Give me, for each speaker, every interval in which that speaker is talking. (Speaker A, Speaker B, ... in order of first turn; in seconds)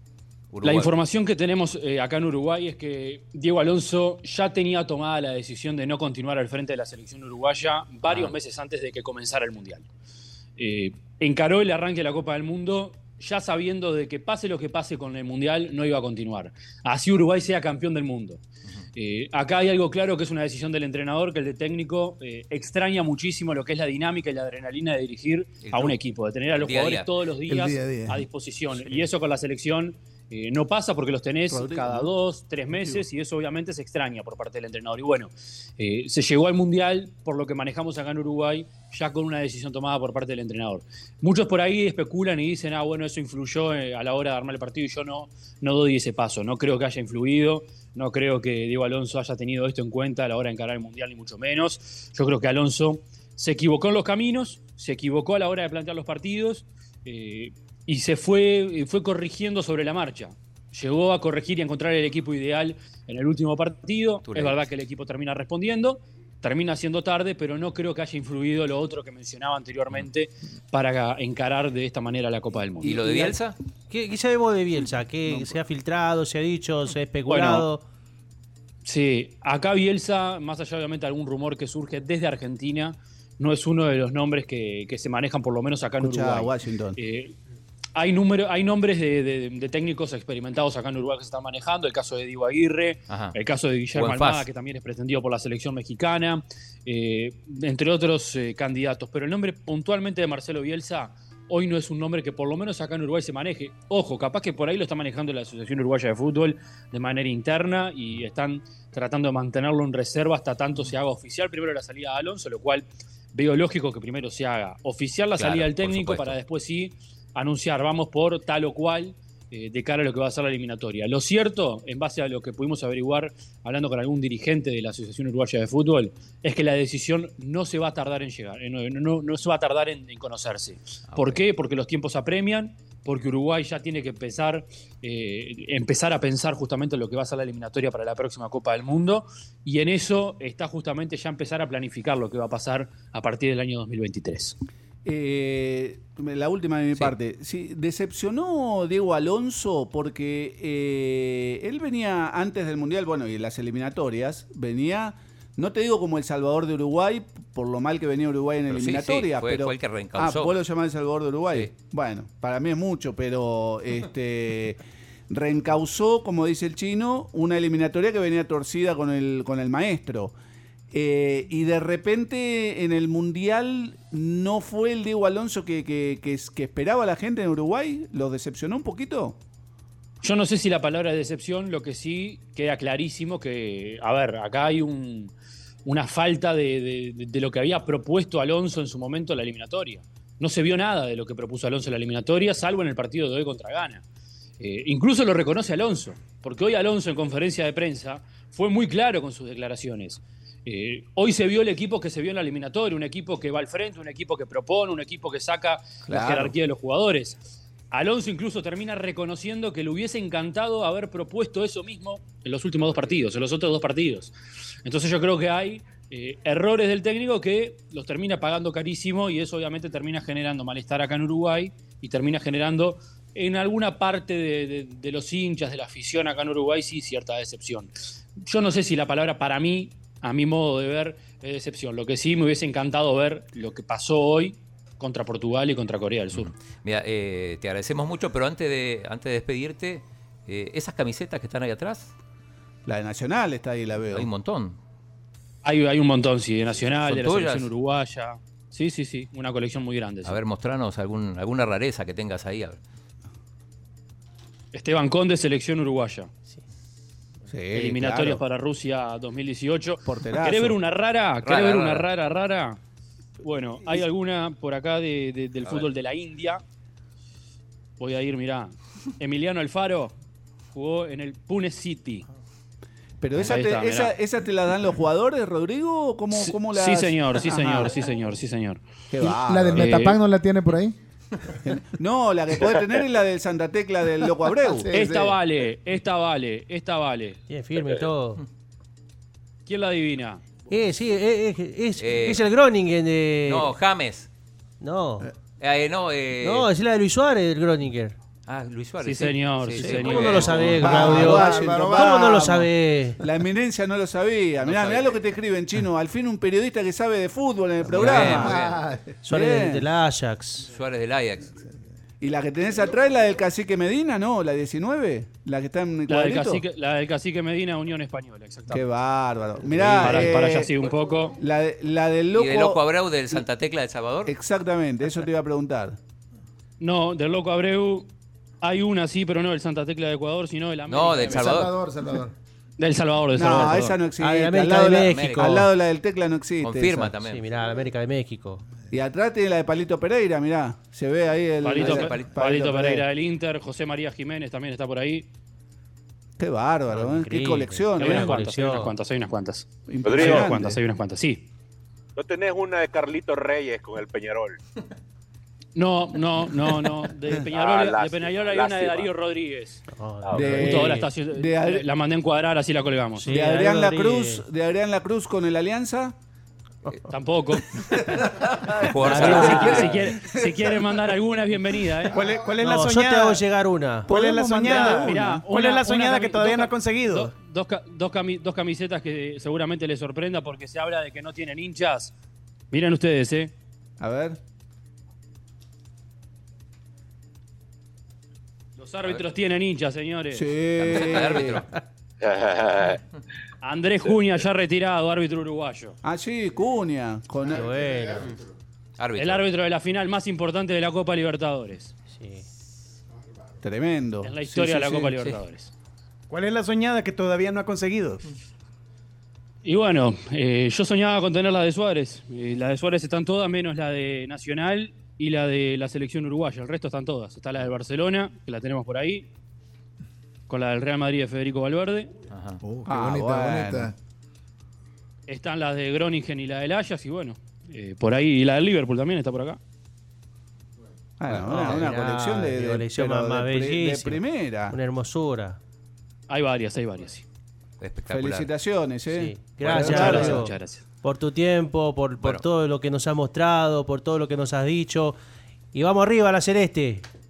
Speaker A: 0.5-0.9, 8.1-8.3, 25.6-26.0, 26.5-27.1, 64.3-64.6, 72.8-73.6, 93.1-93.3, 93.9-94.5, 115.3-116.4, 131.1-131.4, 158.7-160.6, 236.3-242.1, 244.1-244.8, 246.9-247.7, 250.2-252.8, 261.4-262.1, 292.0-292.4, 293.5-294.3, 295.6-296.7, 298.5-300.8, 304.6-305.2, 308.0-308.8, 310.6-311.6, 322.3-324.3, 330.9-331.7, 335.1-335.6, 336.6-337.4, 341.8-342.3, 368.7-370.1, 390.8-391.7, 399.0-399.4, 422.3-422.6, 437.8-438.5
Speaker B: 0.6-9.9, 10.6-18.4, 18.9-73.3, 77.3-77.7, 78.8-87.3, 87.9-144.6, 180.2-185.3, 185.8-194.0, 194.6-207.4, 207.9-214.3, 214.8-236.5, 245.6-250.4, 254.7-256.3, 257.7-262.8, 263.4-266.6, 268.0-270.1, 270.7-272.2, 273.4-274.2, 276.3-278.8, 279.7-280.2, 284.9-287.4, 289.7-290.4, 299.0-300.8, 316.1-318.8, 320.0-321.4, 326.8-328.1, 328.6-331.7, 332.8-334.0, 341.6-345.3, 348.0-351.5, 355.7-359.8, 360.4-363.3, 367.1-368.2, 369.0-372.1, 374.6-382.1, 382.7-383.5, 388.8-390.5, 393.6-396.0, 399.2-401.9, 404.2-405.7, 409.6-419.3, 420.5-422.1, 425.3-429.6, 436.3-437.2, 439.6-440.8
Speaker C: 27.5-28.2, 279.2-280.9, 284.6-285.1, 300.8-302.4, 308.0-309.1, 331.3-332.3, 422.6-423.9
Speaker D: 31.5-32.1, 32.7-33.0, 72.8-73.3, 86.0-87.0, 145.0-170.3, 170.9-179.4, 206.1-206.6, 242.8-244.3, 257.5-258.4, 260.0-260.8, 273.2-277.9, 279.1-280.0, 281.6-285.3, 300.8-302.7, 303.2-308.6, 309.3-309.9, 312.2-316.6, 318.7-320.7, 321.4-322.8, 324.2-326.0, 333.3-337.1, 338.9-343.1, 346.4-348.4, 349.9-350.8, 360.3-361.9, 363.2-366.1, 374.1-375.4, 384.0-384.4, 390.3-391.6, 396.0-397.7, 403.6-405.2, 422.9-423.9, 431.2-434.8, 438.1-440.5
Speaker E: 73.9-77.8, 287.5-288.4, 290.7-293.7, 294.8-295.3, 296.4-298.1, 299.8-303.2, 307.8-308.4, 309.2-310.7, 334.2-335.7, 337.2-338.6, 346.9-348.9, 359.9-361.1, 363.1-364.4, 369.0-369.9, 372.6-375.4, 397.4-398.3, 402.1-402.4, 431.3-435.6, 439.1-445.2, 445.7-447.1
Speaker F: 350.0-350.5, 352.1-354.6, 357.5-359.1, 360.2-360.5, 392.2-393.0
Speaker G: 372.1-373.4, 374.1-377.3, 406.3-408.2